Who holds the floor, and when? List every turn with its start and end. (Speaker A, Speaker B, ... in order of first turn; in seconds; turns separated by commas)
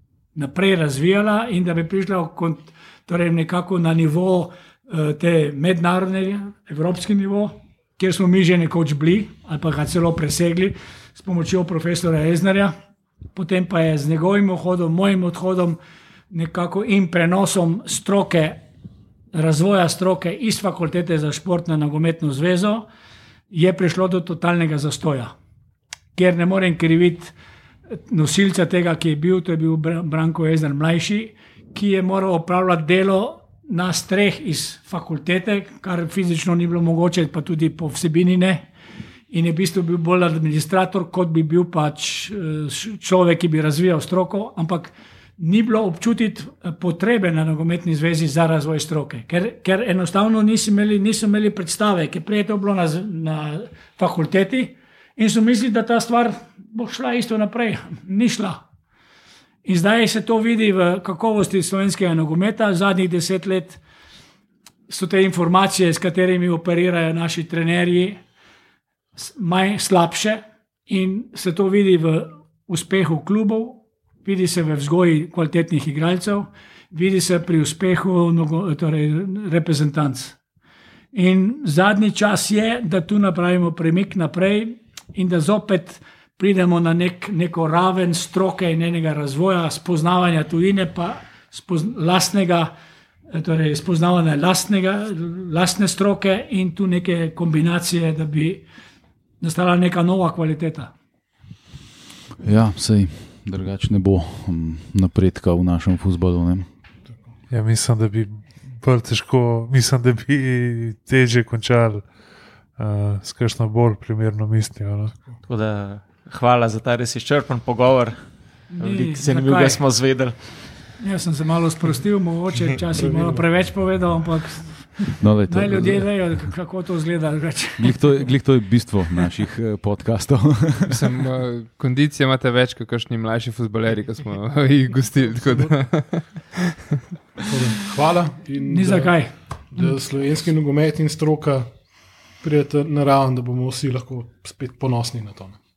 Speaker A: 0.3-12.7, Speaker A: 13.3-15.8, Speaker A: 16.3-18.6, Speaker A: 19.3-22.9, Speaker A: 23.5-25.3, Speaker A: 26.1-27.3, Speaker A: 27.9-38.7, Speaker A: 39.3-58.6, Speaker A: 59.6-63.8, Speaker A: 64.9-68.2, Speaker A: 69.2-80.4, Speaker A: 81.1-92.7, Speaker A: 93.3-98.6, Speaker A: 99.4-100.9, Speaker B: 102.4-106.7, Speaker C: 107.5-115.3, Speaker D: 115.4-121.0, Speaker A: 118.7-119.9, Speaker A: 121.0-128.1, Speaker E: 122.9-123.6, Speaker B: 125.2-126.4, Speaker B: 127.8-131.0, Speaker F: 130.9-136.6, Speaker E: 137.4-141.7, Speaker A: 138.7-139.4, Speaker E: 142.4-145.6